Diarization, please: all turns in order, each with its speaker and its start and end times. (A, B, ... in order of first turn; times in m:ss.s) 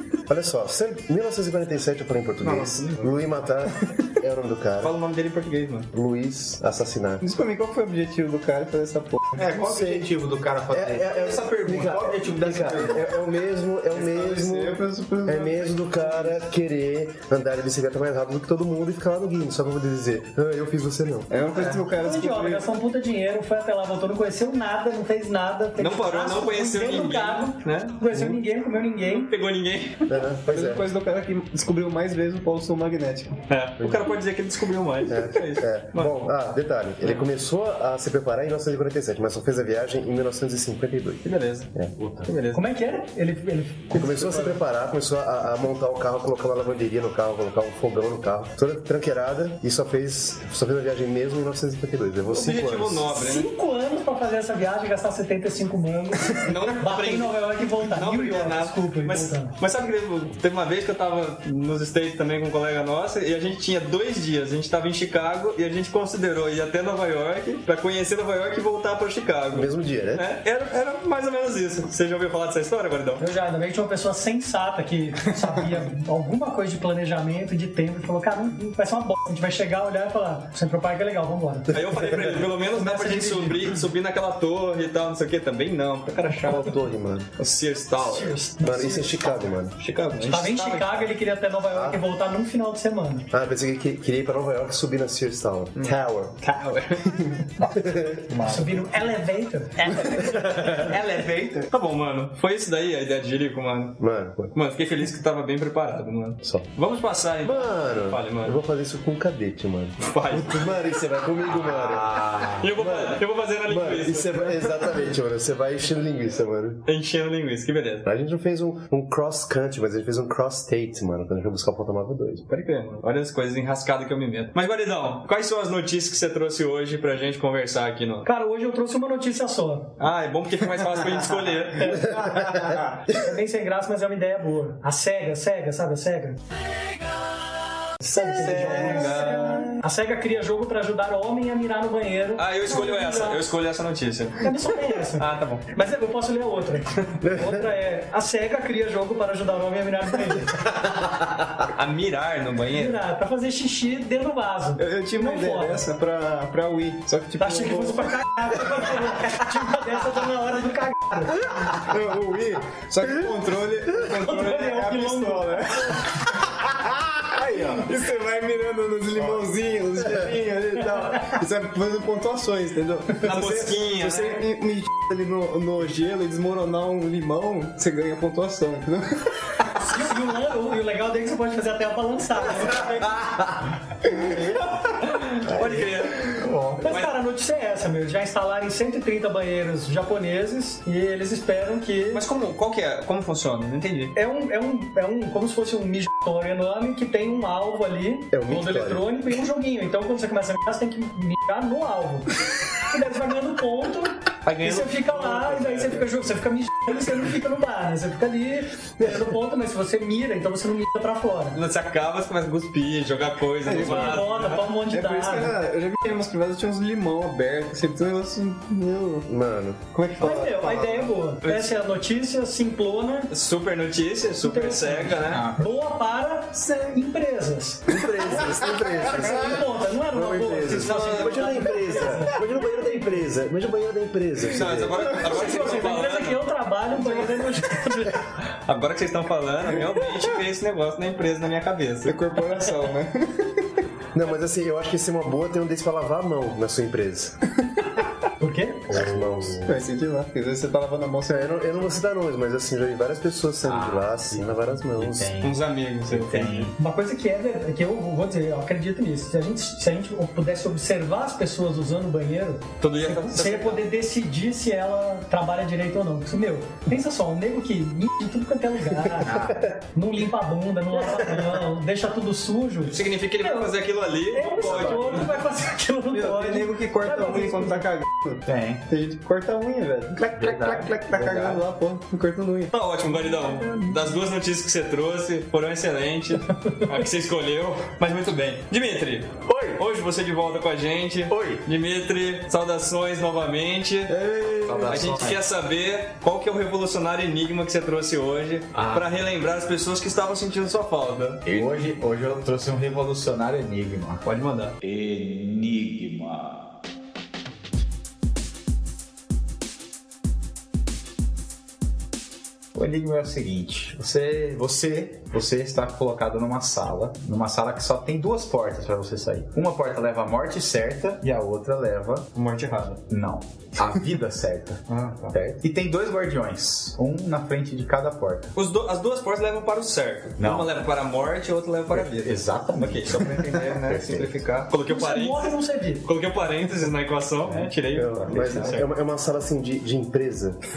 0:00.3-0:04.9 A
0:02.4-0:03.1 B
0:04.8-0:05.9 B
0:05.9-0:07.2 A
0:07.2-0:09.5 C
0:09.4-0:13.1 D
0:09.6-0:10.1 A
0:10.7-0:21.3 A
0:13.9-0:16.4 C
0:21.3-0:22.6 C
0:22.0-0:29.3 E
0:25.8-0:27.9 B
0:28.1-0:28.4 A
0:29.2-0:30.0 B
0:30.1-0:30.9 A
0:30.4-0:33.4 C
0:33.5-0:36.2 B
0:33.8-0:34.1 A
0:35.0-0:42.3 A
0:41.2-0:41.7 B
0:42.2-0:42.7 B
0:42.5-0:44.6 E
0:43.9-0:53.0 A
0:52.3-0:53.5 B
0:53.1-0:59.5 E
0:56.4-1:13.2 B
1:09.5-1:10.2 A
1:13.2-1:21.8 E
1:21.7-1:26.8 B
1:21.9-1:22.4 A
1:22.8-1:23.7 E
1:26.4-1:27.3 A
1:27.4-1:28.4 B
1:28.0-1:29.5 E
1:28.6-1:29.8 A
1:29.8-1:31.1 B
1:30.2-1:33.3 E
1:31.7-1:32.0 A
1:33.3-1:36.4 A
1:35.8-1:37.1 B
1:37.6-1:38.3 A
1:38.3-1:38.8 D
1:38.4-1:40.3 E
1:40.2-1:41.7 D
1:41.7-1:44.0 B
1:44.0-1:44.5 A
1:44.5-1:48.6 B
1:46.4-1:46.7 A
1:47.4-1:56.8 A
1:50.0-1:50.8 B
1:51.5-1:52.6 D
1:52.6-1:54.8 B
1:56.8-1:58.0 B
1:58.0-2:02.4 A
2:02.5-2:08.3 B
2:08.2-2:09.9 E
2:10.0-2:12.1 B
2:12.1-2:12.6 A
2:13.1-2:16.4 E
2:18.0-2:23.4 E
2:18.1-2:19.2 A
2:18.3-2:19.7 B
2:22.4-2:25.6 B
2:24.4-2:30.6 E
2:27.2-2:27.6 A
2:31.6-2:33.0 B
2:32.8-2:35.8 E
2:34.8-2:38.2 C
2:37.4-2:41.4 E
2:41.6-2:46.1 C
2:44.0-2:45.6 E
2:47.3-2:59.2 C
2:47.5-2:47.8 B
2:53.2-2:54.4 B
2:59.8-3:03.1 E
3:05.0-3:07.1 B
3:06.3-3:06.8 D
3:06.8-3:12.2 E
3:12.1-3:14.1 B
3:14.1-3:31.6 E
3:18.3-3:19.0 A
3:24.4-3:26.0 B
3:31.5-3:34.7 B
3:33.6-3:34.3 C
3:33.8-3:35.5 E
3:34.9-3:39.3 C
3:39.3-3:40.3 A
3:39.9-3:41.1 C
3:40.2-3:43.3 E
3:41.4-3:41.7 B
3:43.3-3:45.4 B
3:44.4-3:48.5 E
3:45.2-3:45.7 D
3:47.9-3:55.1 A
3:49.0-3:53.0 E
3:50.8-3:51.9 B
3:54.4-3:56.4 B
3:55.2-3:58.2 E
3:58.6-4:02.2 B
4:02.0-4:03.6 C
4:04.1-4:07.4 A
4:08.4-4:08.8 E
4:08.9-4:09.7 D
4:08.9-4:09.6 A
4:09.6-4:11.5 C
4:11.2-4:15.3 A
4:13.6-4:16.7 D
4:15.4-4:16.7 B
4:16.8-4:29.3 E
4:22.8-4:23.8 B
4:29.2-4:29.7 D
4:29.9-4:33.7 E
4:32.9-4:35.3 B
4:34.3-4:37.8 E
4:36.1-4:42.7 C
4:38.4-4:38.8 D
4:40.2-4:41.6 D
4:42.7-4:54.1 B
4:49.5-4:49.8 D
4:51.3-4:51.6 D
4:54.1-4:54.9 C
4:54.6-4:55.4 D
4:54.8-5:01.4 B
4:58.7-4:59.1 D
5:01.4-5:04.2 D
5:04.2-5:04.7 B
5:04.8-5:06.7 D
5:12.7-5:22.3 D
5:22.3-5:23.0 B
5:23.1-5:28.5 D
5:24.9-5:25.3 B
5:28.5-5:38.9 B
5:30.4-5:30.7 D
5:31.9-5:34.0 D
5:33.9-5:34.3 A
5:34.9-5:36.0 E
5:37.5-5:38.7 D
5:37.9-5:40.6 A